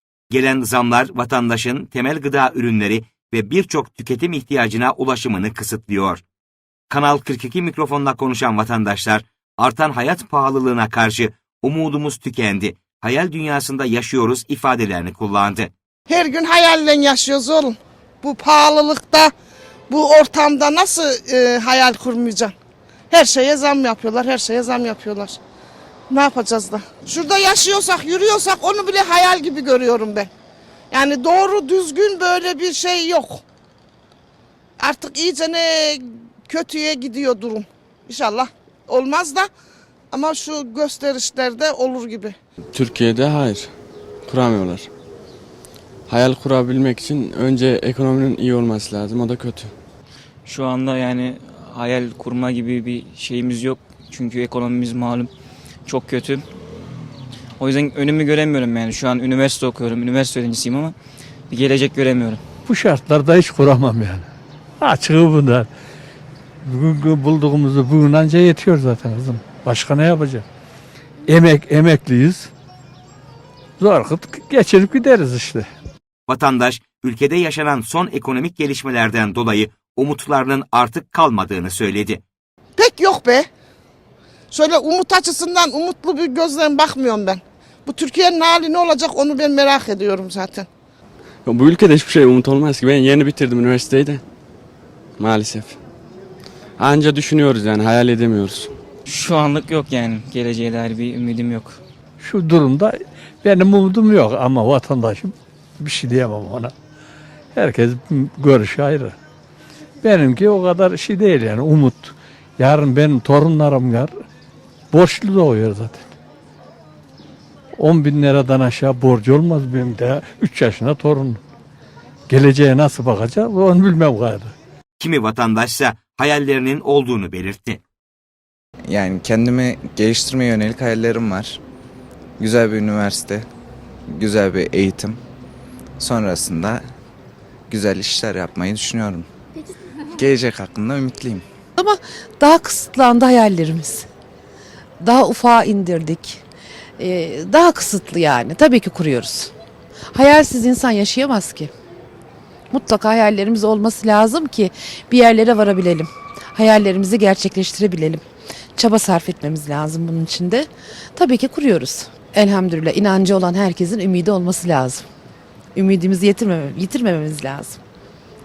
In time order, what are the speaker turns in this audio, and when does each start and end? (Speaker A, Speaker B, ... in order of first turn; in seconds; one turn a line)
Speaker A: 0.3-6.2
Speaker A: 6.9-15.7
Speaker B: 16.1-19.3
Speaker B: 19.9-22.5
Speaker B: 23.1-25.4
Speaker B: 26.1-30.3
Speaker B: 30.9-33.4
Speaker B: 34.8-39.5
Speaker B: 40.1-42.4
Speaker C: 42.7-43.7
Speaker C: 44.3-44.9
Speaker C: 46.1-49.8
Speaker D: 50.5-55.3
Speaker D: 55.9-56.5
Speaker D: 57.6-61.0
Speaker D: 61.5-62.4
Speaker E: 62.7-64.3
Speaker E: 64.8-65.7
Speaker E: 66.6-70.5
Speaker E: 71.3-72.5
Speaker E: 73.8-75.7
Speaker A: 76.3-82.2
Speaker B: 82.8-83.5
Speaker B: 84.5-90.7
Speaker C: 91.5-94.2
Speaker C: 95.2-95.8
Speaker C: 96.8-98.7
Speaker D: 99.1-101.8
Speaker E: 102.2-106.7
Speaker E: 107.5-109.2
Speaker E: 110.0-114.1
Speaker E: 114.9-116.0
Speaker E: 117.8-121.4
Speaker E: 122.3-124.5
Speaker A: 125.0-127.8
Speaker F: 128.9-131.6
Speaker F: 132.4-133.5
Speaker F: 134.1-135.2
Speaker F: 136.0-136.8
Speaker F: 137.7-139.3
Speaker F: 140.1-141.4
Speaker G: 141.8-144.1
Speaker G: 145.0-146.4
Speaker G: 147.0-149.5
Speaker G: 150.1-151.7
Speaker G: 152.7-158.2
Speaker G: 158.8-165.0
Speaker G: 165.8-167.8